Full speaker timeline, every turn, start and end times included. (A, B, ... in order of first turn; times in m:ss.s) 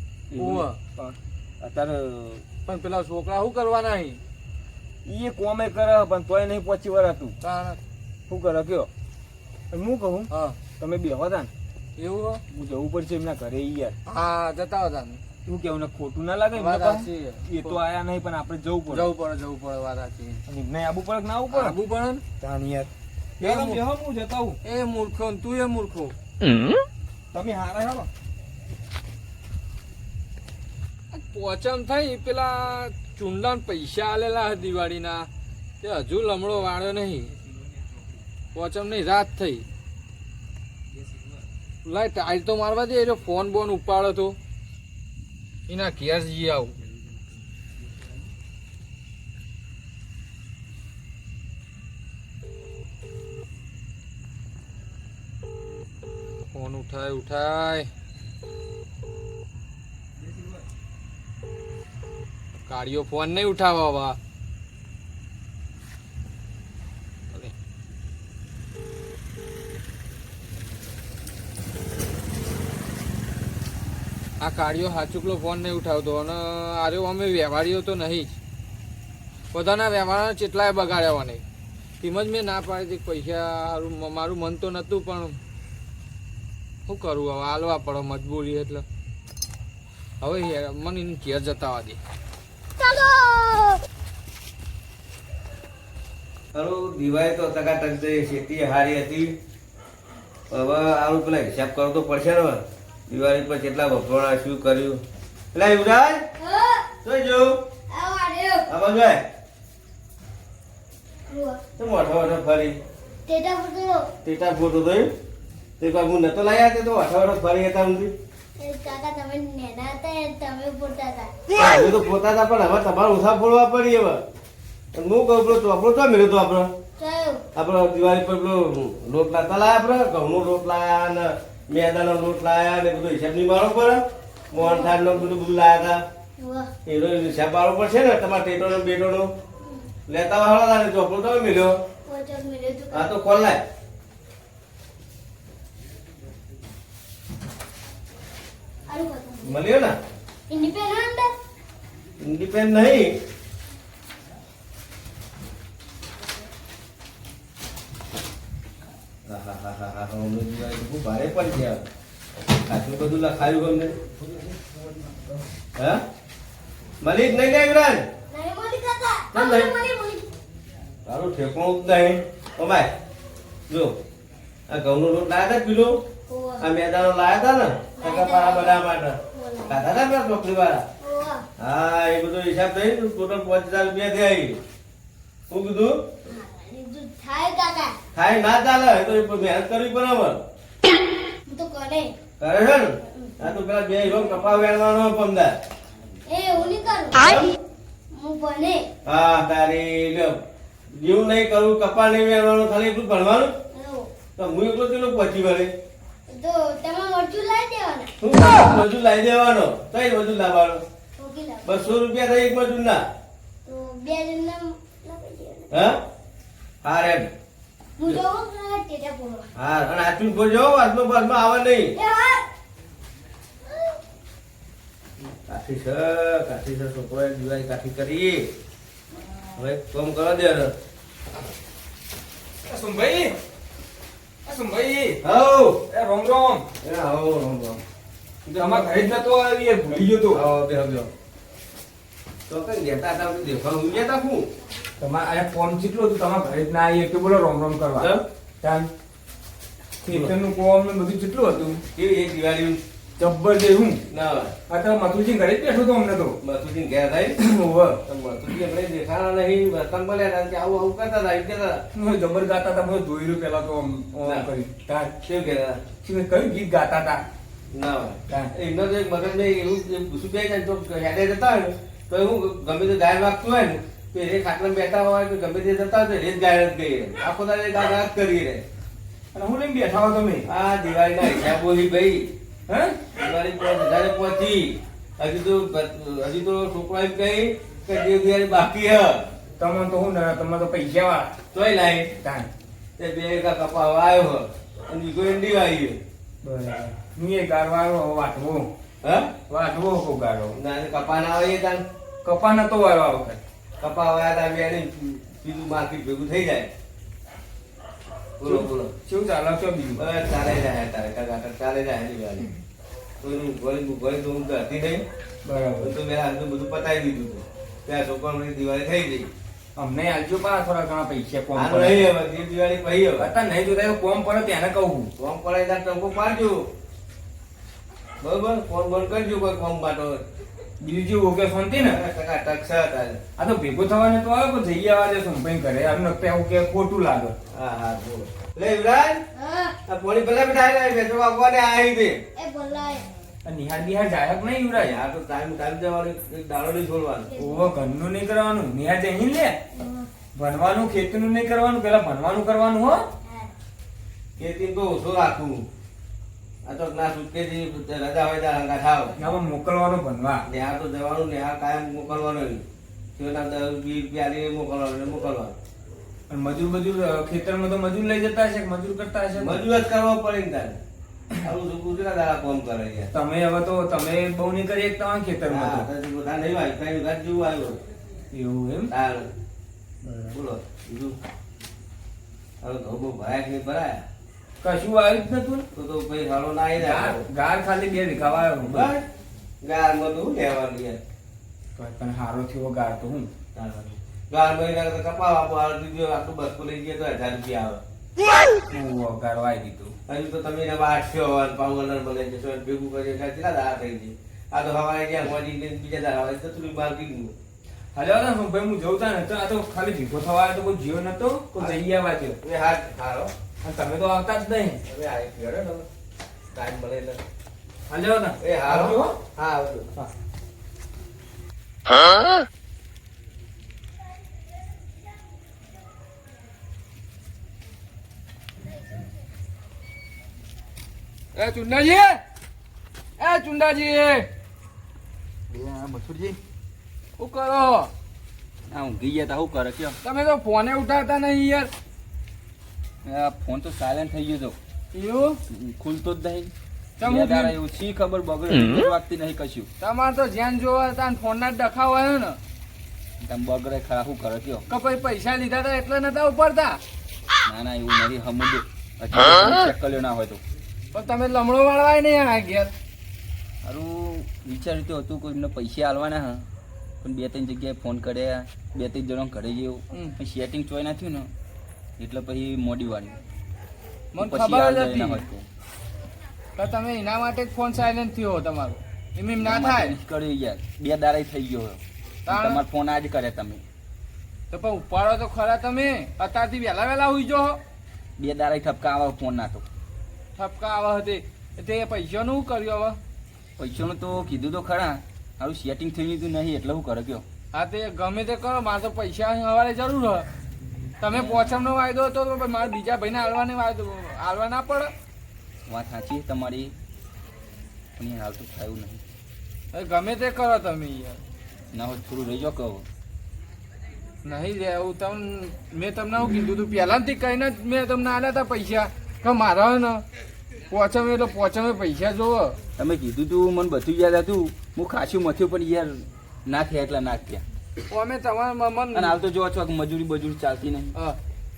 0:00.3-0:02.4 A
0:00.4-0:00.8 B
0:02.7-0:04.2 B
0:05.1-0:07.4 A
0:07.4-0:07.8 B
0:08.3-0:08.9 A
0:09.7-0:11.5 A
0:10.3-0:10.6 B
0:12.0-0:12.4 B
0:12.5-0:14.0 A
0:14.1-0:15.2 B
0:15.5-0:19.1 A
0:16.6-0:17.8 B
0:18.9-0:20.4 B
0:20.5-0:24.6 A
0:21.5-0:22.1 B
0:23.4-0:23.8 B
0:24.6-0:26.2 B
0:27.3-0:28.1 A
0:31.1-0:35.3 B
0:35.8-0:37.3 B
0:38.5-0:39.7 B
0:41.8-0:44.4 B
0:45.7-0:46.8 B
0:56.5-0:57.9 B
1:02.7-1:04.2 B
1:14.4-1:18.4 B
1:19.5-1:21.4 B
1:22.0-1:25.4 B
1:26.9-1:28.8 B
1:30.2-1:32.0 B
1:32.8-1:33.7 C
1:36.5-1:39.4 D
1:40.5-1:45.0 D
1:45.5-1:46.3 D
1:46.4-1:46.9 C
1:47.0-1:47.6 D
1:47.9-1:48.7 C
1:48.7-1:49.2 D
1:51.3-1:51.6 C
1:51.8-1:52.8 D
1:53.3-1:54.1 C
1:54.2-1:55.1 D
1:55.8-1:58.1 D
1:58.6-2:01.4 C
2:01.6-2:04.2 D
2:04.9-2:06.7 D
2:07.0-2:07.4 C
2:07.6-2:16.0 D
2:14.6-2:15.0 C
2:16.4-2:16.7 C
2:16.9-2:19.3 D
2:19.6-2:19.9 C
2:20.1-2:21.8 D
2:22.1-2:23.1 C
2:22.9-2:23.6 D
2:28.9-2:29.6 C
2:29.4-2:30.0 D
2:30.5-2:31.3 C
2:32.2-2:33.2 D
2:39.3-2:41.8 D
2:42.5-2:43.9 D
2:45.8-2:46.0 D
2:47.0-2:48.1 D
2:48.3-2:50.3 C
2:49.3-2:49.7 D
2:51.1-2:52.9 D
2:53.7-2:54.0 D
2:54.7-2:56.0 D
2:56.3-2:56.6 C
2:56.6-2:59.2 D
2:58.0-2:59.8 C
2:59.7-3:00.9 D
3:01.0-3:01.4 C
3:01.6-3:04.6 D
3:05.5-3:06.1 D
3:06.3-3:08.0 C
3:08.2-3:10.4 D
3:11.5-3:12.1 C
3:12.4-3:15.6 D
3:13.1-3:13.4 C
3:16.3-3:17.6 C
3:17.2-3:17.5 D
3:18.1-3:18.8 C
3:19.1-3:20.4 D
3:20.9-3:23.6 D
3:23.7-3:24.1 C
3:24.4-3:25.7 D
3:26.3-3:28.1 C
3:28.2-3:30.8 D
3:31.2-3:31.8 C
3:31.7-3:33.0 D
3:33.7-3:35.7 C
3:35.7-3:36.0 D
3:36.8-3:37.3 D
3:38.0-3:39.5 C
3:39.6-3:41.9 D
3:41.9-3:42.4 C
3:45.5-3:48.5 D
3:49.6-3:50.7 D
3:52.6-3:53.4 A
3:54.4-3:55.2 A
3:55.2-3:55.8 D
3:55.9-3:56.7 A
3:56.8-3:57.8 D
3:58.5-3:59.2 D
3:58.5-4:00.4 A
4:00.2-4:01.1 D
4:02.5-4:04.5 D
4:05.0-4:08.9 A
4:08.0-4:08.2 D
4:10.0-4:11.8 A
4:12.0-4:12.8 D
4:13.2-4:14.0 A
4:14.1-4:14.5 D
4:14.7-4:16.4 A
4:16.4-4:17.4 D
4:17.4-4:18.0 A
4:18.1-4:21.8 D
4:21.9-4:25.2 A
4:25.2-4:25.8 D
4:26.0-4:27.3 A
4:27.7-4:38.6 D
4:39.3-4:40.5 A
4:40.5-4:42.3 D
4:42.7-4:43.0 A
4:43.2-4:49.3 D
4:49.6-4:51.4 A
4:51.5-4:52.1 D
4:52.2-4:52.5 A
4:53.0-4:56.0 D
4:56.4-4:58.7 A
4:59.0-4:59.3 D
4:59.5-5:00.6 A
5:00.6-5:01.8 D
5:02.2-5:03.4 A
5:03.8-5:06.7 D
5:08.4-5:08.9 D
5:08.4-5:10.0 A
5:10.0-5:12.5 D
5:13.2-5:15.0 D
5:15.4-5:15.9 A
5:15.8-5:19.3 D
5:19.8-5:22.2 A
5:21.6-5:23.3 D
5:23.2-5:25.1 A
5:25.2-5:26.7 D
5:28.2-5:30.2 D
5:30.8-5:32.0 A
5:31.8-5:33.2 D
5:33.4-5:37.4 A
5:37.5-5:39.2 D
5:39.4-5:39.8 C
5:39.9-5:42.2 D
5:42.4-5:43.1 C
5:43.4-5:45.0 A
5:44.8-5:47.3 D
5:47.3-5:47.7 C
5:47.4-5:49.6 A
5:49.7-5:50.1 C
5:50.3-5:53.1 A
5:53.2-5:53.5 C
5:54.4-5:55.7 D
5:56.6-5:59.1 D
5:59.2-6:00.5 A
6:00.5-6:02.6 D
6:03.2-6:05.6 D
6:06.3-6:09.6 A
6:09.4-6:10.8 D
6:11.4-6:13.1 D
6:13.1-6:15.9 A
6:15.5-6:17.8 D
6:18.3-6:18.9 A
6:18.9-6:19.3 D
6:20.1-6:21.2 D
6:22.6-6:24.0 D
6:24.6-6:25.7 A
6:25.8-6:27.2 D
6:26.8-6:28.9 A
6:28.7-6:29.0 D
6:29.6-6:31.0 D
6:31.8-6:33.3 A
6:33.6-6:37.8 D
6:38.7-6:40.0 A
6:40.1-6:47.3 D
6:48.0-6:52.4 A
6:52.4-6:53.3 D
6:53.6-6:54.8 A
6:54.9-6:55.9 D
6:56.5-6:57.2 D
6:57.9-6:59.2 A
6:58.4-6:59.9 D
7:11.3-7:12.2 B
7:13.2-7:14.3 B
7:15.5-7:16.4 E
7:17.2-7:17.9 B
7:18.7-7:20.0 E
7:20.0-7:21.7 B
7:23.0-7:24.6 E
7:24.9-7:25.4 B
7:25.5-7:26.5 E
7:27.0-7:27.6 B
7:27.0-7:29.7 E
7:29.8-7:32.4 B
7:33.2-7:34.7 E
7:34.7-7:36.8 B
7:37.5-7:40.4 E
7:40.9-7:42.7 B
7:43.6-7:46.4 E
7:47.0-7:51.3 E
7:52.0-7:53.2 E
7:54.1-7:55.3 B
7:54.2-7:55.5 E
7:56.6-8:00.0 B
7:59.4-8:03.6 E
8:02.3-8:02.6 B
8:04.5-8:07.6 B
8:08.2-8:09.6 E
8:10.4-8:13.0 B
8:13.6-8:17.2 E
8:17.5-8:20.3 B
8:21.0-8:24.9 B
8:21.1-8:21.6 E
8:25.7-8:26.7 E
8:28.0-8:29.0 E
8:29.7-8:31.2 B
8:31.7-8:32.8 E
8:34.2-8:40.0 B
8:40.7-8:42.6 B
8:42.8-8:47.4 E
8:47.9-8:49.2 B
8:48.9-8:51.0 E